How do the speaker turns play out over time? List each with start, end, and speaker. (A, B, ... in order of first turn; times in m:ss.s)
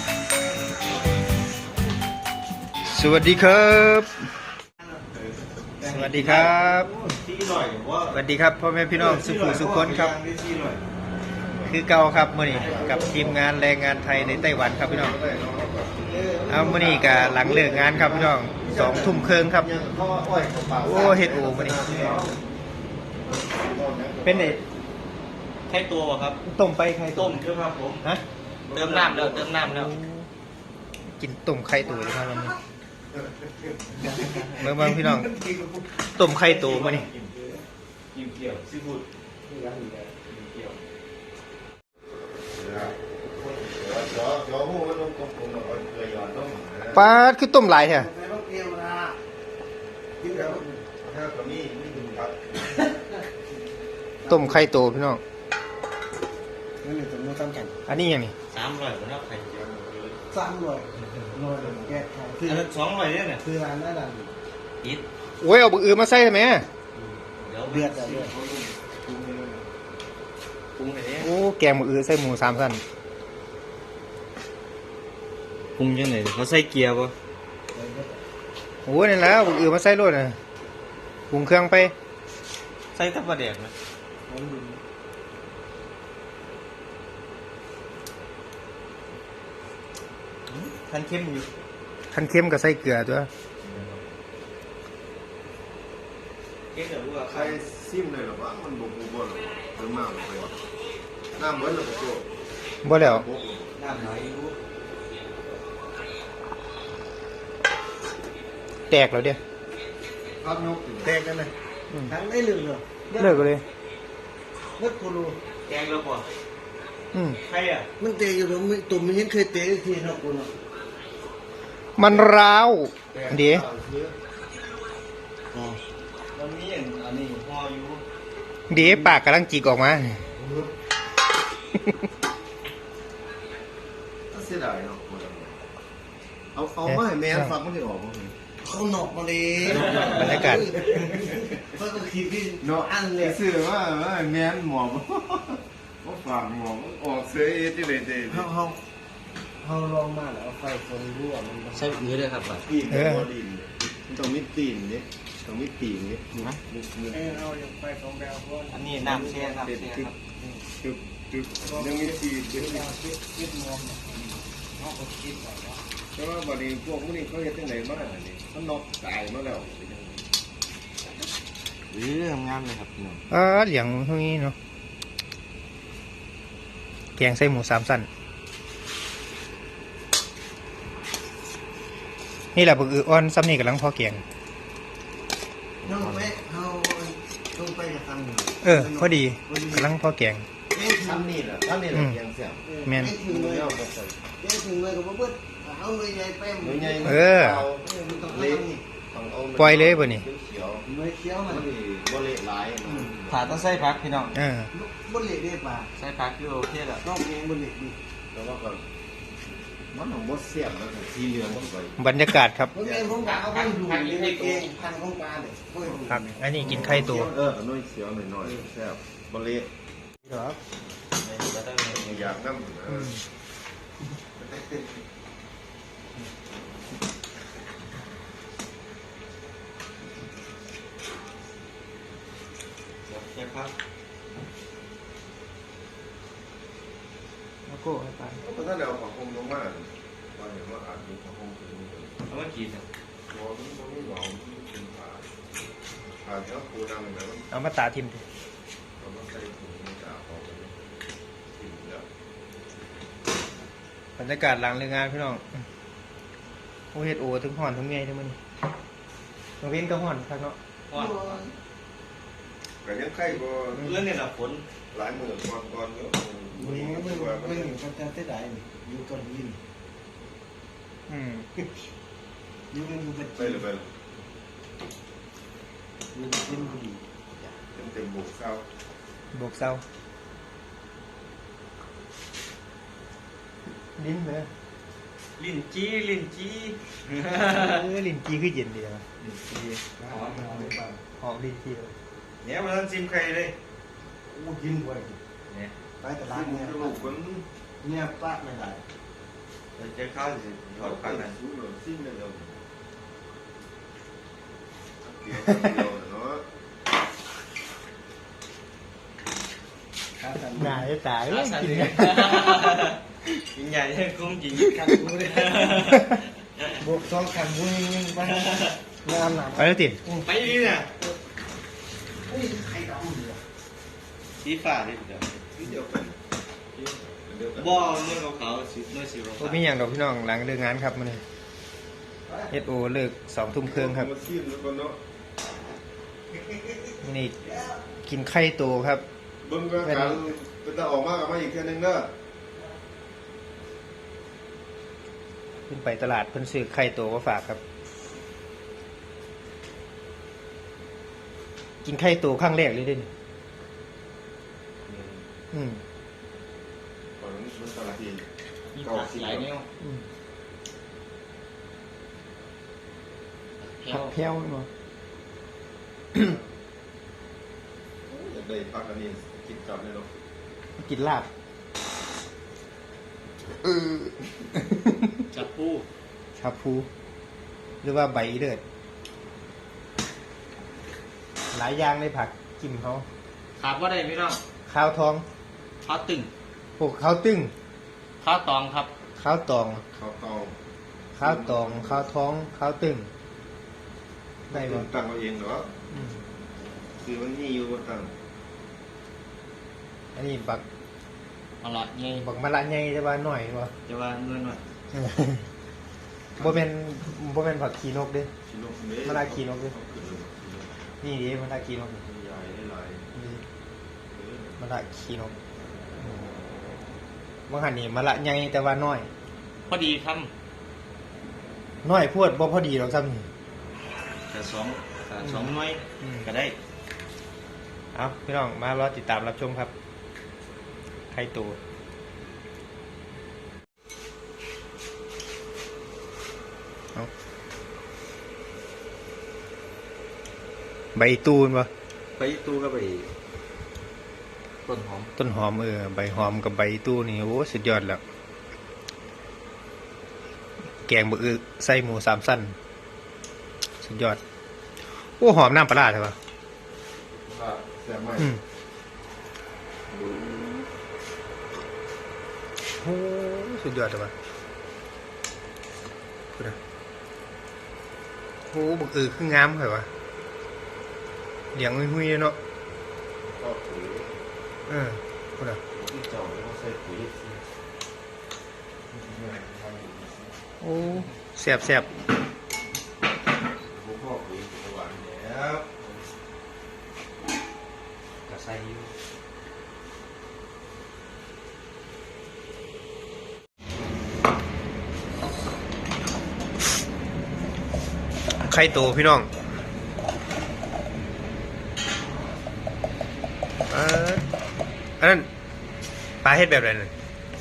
0:02.9-0:04.1 A
0:05.8-0:08.2 B
0:05.8-0:06.9 A
0:08.1-0:10.2 A
0:08.9-0:10.8 B
0:11.3-0:11.8 C
0:11.7-0:15.2 A
0:12.4-0:13.1 B
0:12.5-0:13.4 C
0:14.1-0:22.4 C
0:16.2-0:16.7 D
0:16.5-0:19.7 A
0:20.8-0:22.2 A
0:23.2-0:24.6 C
0:24.2-0:24.6 A
0:25.7-0:26.4 B
0:26.4-0:27.4 A
0:27.1-0:28.0 B
0:28.7-0:29.6 C
0:28.7-0:29.9 B
0:29.6-0:30.3 A
0:31.1-0:32.5 A
0:31.8-0:32.3 D
0:33.9-0:35.9 D
0:34.0-0:34.5 B
0:34.6-0:35.3 A
0:36.1-0:37.1 A
0:36.2-0:37.3 B
0:37.3-0:37.6 D
0:38.1-0:39.0 B
0:39.4-0:40.2 D
0:40.2-0:40.8 B
0:42.5-0:47.1 C
0:46.9-0:48.1 A
0:47.8-0:49.2 D
0:50.2-0:50.8 D
0:50.2-0:52.8 C
0:52.8-0:53.2 D
0:54.2-0:54.7 D
0:54.3-0:55.2 A
0:56.8-0:57.8 D
0:57.9-0:58.3 A
0:58.5-0:59.5 B
0:59.5-1:00.2 C
1:00.3-1:02.7 D
1:02.4-1:03.4 B
1:03.4-1:04.3 D
1:05.4-1:06.7 A
1:06.9-1:08.3 D
1:07.4-1:08.3 B
1:08.3-1:09.6 C
1:10.8-1:11.3 B
1:11.2-1:12.8 A
1:15.8-1:17.1 B
1:17.7-1:18.2 D
1:18.8-1:20.4 A
1:21.3-1:21.9 A
1:22.9-1:23.7 B
1:24.3-1:24.8 D
1:30.5-1:31.5 B
1:32.1-1:33.3 A
1:33.6-1:34.0 C
1:36.7-1:37.6 B
1:37.3-1:40.6 C
1:41.4-1:42.3 C
1:42.8-1:43.2 A
1:42.9-1:43.7 C
1:43.8-1:44.5 B
1:48.9-1:49.4 A
1:50.4-1:51.1 C
1:51.0-1:51.5 D
1:52.0-1:53.4 D
1:53.2-1:53.6 A
1:54.8-1:55.4 D
1:55.6-1:56.3 B
1:57.1-1:57.4 A
1:57.4-1:57.9 B
1:58.0-2:00.5 D
2:02.0-2:03.6 A
2:03.1-2:04.1 C
2:05.5-2:05.8 D
2:06.3-2:08.0 B
2:08.7-2:10.2 A
2:10.4-2:10.7 D
2:14.3-2:15.6 C
2:16.5-2:18.4 C
2:16.9-2:17.5 A
2:18.6-2:23.4 D
2:19.6-2:21.4 C
2:19.7-2:20.9 B
2:20.2-2:20.7 A
2:22.6-2:28.5 C
2:28.3-2:28.8 D
2:29.6-2:32.0 D
2:31.7-2:32.6 B
2:32.5-2:37.4 C
2:32.9-2:33.2 A
2:37.1-2:39.6 D
2:38.7-2:40.1 B
2:39.6-2:40.1 C
2:40.4-2:40.6 D
2:40.8-2:42.9 C
2:41.6-2:45.8 D
2:46.1-2:50.3 C
2:51.9-2:53.2 B
2:53.3-2:54.5 A
2:57.2-2:58.1 A
3:02.5-3:04.2 A
3:05.8-3:06.3 C
3:05.8-3:09.9 D
3:08.6-3:10.4 A
3:10.7-3:11.3 D
3:10.7-3:12.6 C
3:12.6-3:13.7 D
3:12.8-3:13.1 A
3:13.2-3:14.2 C
3:14.4-3:17.2 D
3:16.6-3:20.8 C
3:17.0-3:17.7 A
3:17.8-3:18.8 D
3:19.6-3:20.2 A
3:20.8-3:21.7 D
3:21.4-3:23.6 C
3:22.8-3:23.1 D
3:23.3-3:24.3 B
3:24.3-3:24.7 A
3:24.7-3:25.9 D
3:26.0-3:27.0 B
3:27.0-3:28.0 D
3:28.3-3:28.8 C
3:29.9-3:32.0 C
3:32.0-3:32.7 A
3:32.7-3:37.0 D
3:32.8-3:33.1 C
3:33.1-3:34.7 B
3:36.1-3:37.3 A
3:36.6-3:39.7 C
3:40.2-3:40.6 A
3:41.2-3:42.3 B
3:41.9-3:43.2 C
3:42.9-3:43.2 A
3:44.4-3:45.0 C
3:53.1-3:53.7 B
3:57.6-3:58.4 A
3:58.4-4:02.2 C
4:02.3-4:02.8 B
4:03.3-4:05.3 C
4:06.1-4:07.5 C
4:07.5-4:08.2 A
4:09.0-4:10.8 C
4:11.5-4:12.1 C
4:14.2-4:15.6 A
4:16.9-4:18.4 A
4:19.6-4:20.6 A
4:20.9-4:21.4 B
4:20.9-4:21.5 D
4:22.8-4:24.0 C
4:23.7-4:24.6 B
4:24.9-4:27.8 C
4:26.5-4:29.6 D
4:31.1-4:31.4 A
4:32.7-4:33.6 D
4:33.4-4:33.9 C
4:36.1-4:37.6 D
4:37.7-4:38.6 C
4:39.3-4:39.8 A
4:44.0-4:44.5 A
4:45.4-4:47.8 B
4:47.5-4:49.0 A
4:49.2-4:50.8 B
4:50.0-4:51.0 D
4:51.2-4:51.9 A
4:52.4-4:53.5 B
4:54.3-4:55.2 D
4:55.5-4:55.7 B
4:56.0-4:57.1 D
4:56.3-4:57.4 C
4:57.8-4:58.8 D
4:59.8-5:01.4 B
5:00.8-5:02.6 C
5:05.0-5:06.4 C
5:10.2-5:10.9 D
5:10.5-5:12.6 A
5:11.2-5:13.0 B
5:13.5-5:16.7 B
5:14.6-5:16.0 D
5:16.8-5:21.1 D
5:18.2-5:18.8 B
5:19.6-5:20.0 A
5:20.2-5:20.9 B
5:22.3-5:23.4 D
5:24.4-5:25.4 B
5:25.5-5:26.2 C
5:27.1-5:28.0 C
5:27.5-5:29.6 B
5:29.4-5:31.2 A
5:32.3-5:32.5 D
5:32.5-5:34.1 A
5:33.6-5:35.0 C
5:36.3-5:37.8 D
5:37.0-5:37.3 A
5:38.0-5:39.0 A
5:39.4-5:42.1 C
5:39.8-5:40.2 A
5:45.7-5:47.6 A
5:51.8-5:53.1 A
5:54.9-5:55.2 B
5:55.5-5:55.8 A
5:57.2-5:58.2 C
5:58.7-5:59.7 B
5:58.8-5:59.4 C
5:59.8-6:00.0 A
6:03.6-6:04.1 B
6:03.9-6:04.7 A
6:08.1-6:10.1 C
6:10.8-6:11.3 A
6:13.6-6:15.2 A
6:15.3-6:15.8 B
6:16.4-6:16.9 A
6:17.8-6:18.6 A
6:21.5-6:23.0 A
6:23.6-6:24.4 B
6:24.7-6:25.2 A
6:25.8-6:26.3 B
6:26.8-6:27.5 A
6:28.2-6:28.9 B
6:29.2-6:29.8 A
6:29.7-6:30.6 C
6:31.1-6:32.0 C
6:31.2-6:33.1 A
6:34.5-6:34.8 A
6:34.5-6:35.7 C
6:35.9-6:36.2 A
6:37.0-6:38.1 C
6:40.1-6:40.6 A
6:41.6-6:42.2 B
6:42.2-6:43.7 A
6:43.8-6:44.6 B
6:44.9-6:45.4 A
6:46.4-6:46.6 C
6:46.4-6:48.3 A
6:48.5-6:50.7 C
6:49.0-6:49.7 A
6:51.0-6:52.0 A
6:52.0-6:53.1 C
6:53.1-6:53.4 A
6:54.1-6:54.7 C
6:54.6-6:55.3 A
6:56.0-6:56.3 C
6:57.5-6:59.1 A
6:59.7-7:00.3 B
7:01.8-7:03.3 A
7:04.3-7:06.5 B
7:05.2-7:05.5 A
7:06.0-7:06.2 A
7:07.9-7:09.7 A
7:11.1-7:11.6 A
7:20.9-7:21.7 A
7:22.2-7:23.1 B
7:24.6-7:25.1 B
7:25.2-7:28.0 A
7:30.8-7:32.5 A
7:33.8-7:34.2 A
7:35.2-7:36.2 A
7:37.2-7:38.3 C
7:39.9-7:40.6 A
7:42.8-7:44.1 A
7:48.5-7:49.9 A
7:51.5-7:52.4 A
7:53.2-7:54.2 C
7:54.7-7:55.6 A
7:55.7-7:57.4 C
7:58.9-8:00.4 C
8:00.6-8:01.9 A
8:03.7-8:06.0 C
8:08.3-8:08.9 B
8:18.4-8:19.3 A
8:23.7-8:24.2 A
8:25.0-8:25.3 A
8:26.2-8:26.9 A